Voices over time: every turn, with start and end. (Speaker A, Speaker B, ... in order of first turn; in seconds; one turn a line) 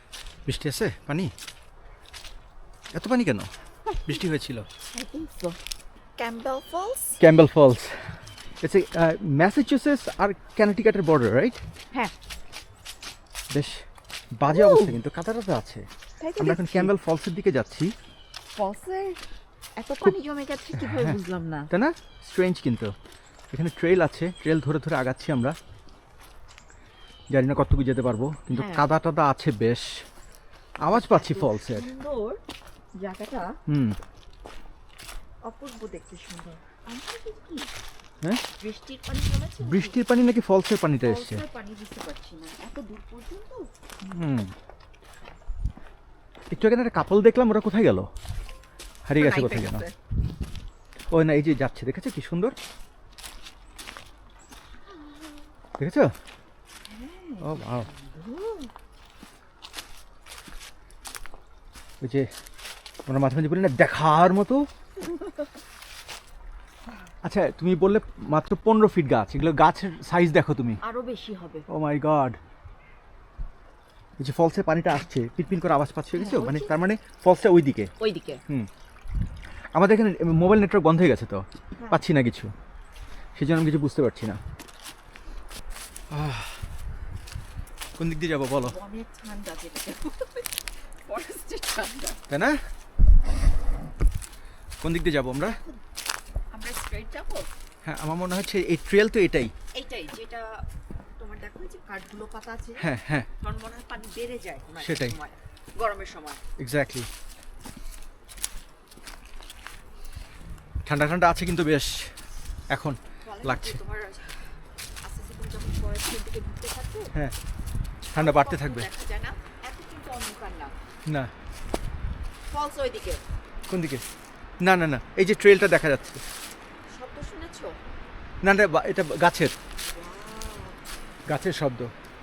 Speaker A: 0.5-1.3
Speaker A: 2.9-3.5
Speaker B: 3.9-4.1
Speaker A: 4.0-4.7
Speaker B: 4.9-5.6
Speaker B: 6.2-7.2
Speaker A: 7.2-11.6
Speaker A: 13.5-15.9
Speaker B: 14.5-14.9
Speaker B: 16.2-16.9
Speaker A: 16.4-17.9
Speaker B: 18.6-19.2
Speaker B: 19.8-21.7
Speaker A: 20.7-21.2
Speaker A: 21.7-22.9
Speaker A: 23.5-25.6
Speaker A: 27.3-30.0
Speaker B: 28.5-28.9
Speaker A: 30.8-31.9
Speaker B: 30.9-32.4
Speaker B: 33.0-33.6
Speaker A: 33.7-34.0
Speaker B: 35.5-37.8
Speaker B: 38.5-40.0
Speaker A: 39.6-41.4
Speaker B: 41.0-43.7
Speaker A: 44.0-44.5
Speaker A: 46.5-48.1
Speaker A: 49.0-49.9
Speaker B: 49.1-49.9
Speaker A: 51.1-52.5
Speaker B: 55.0-55.4
Speaker A: 55.8-56.1
Speaker B: 56.9-58.7
Speaker A: 57.4-57.9
Speaker A: 62.0-62.3
Speaker A: 63.1-64.7
Speaker B: 65.0-65.5
Speaker A: 67.2-70.8
Speaker B: 70.8-71.7
Speaker A: 71.7-72.4
Speaker A: 74.2-77.9
Speaker B: 76.1-76.7
Speaker B: 78.0-78.4
Speaker A: 79.7-82.5
Speaker B: 81.8-82.0
Speaker A: 83.3-84.4
Speaker A: 86.1-86.6
Speaker A: 88.0-88.8
Speaker B: 88.5-92.2
Speaker A: 92.3-92.6
Speaker A: 94.8-95.6
Speaker B: 95.4-95.8
Speaker B: 96.5-97.5
Speaker A: 97.8-99.5
Speaker B: 99.7-100.6
Speaker B: 101.2-102.8
Speaker A: 102.8-103.3
Speaker B: 103.4-106.4
Speaker A: 104.8-105.2
Speaker A: 106.6-107.1
Speaker A: 110.8-112.1
Speaker A: 112.7-113.8
Speaker B: 113.2-117.1
Speaker B: 118.1-120.7
Speaker A: 118.1-118.9
Speaker A: 121.0-121.3
Speaker B: 122.5-123.2
Speaker A: 123.7-124.0
Speaker A: 124.6-126.2
Speaker B: 126.9-127.8
Speaker A: 128.4-129.5
Speaker B: 129.9-130.8
Speaker A: 131.3-131.9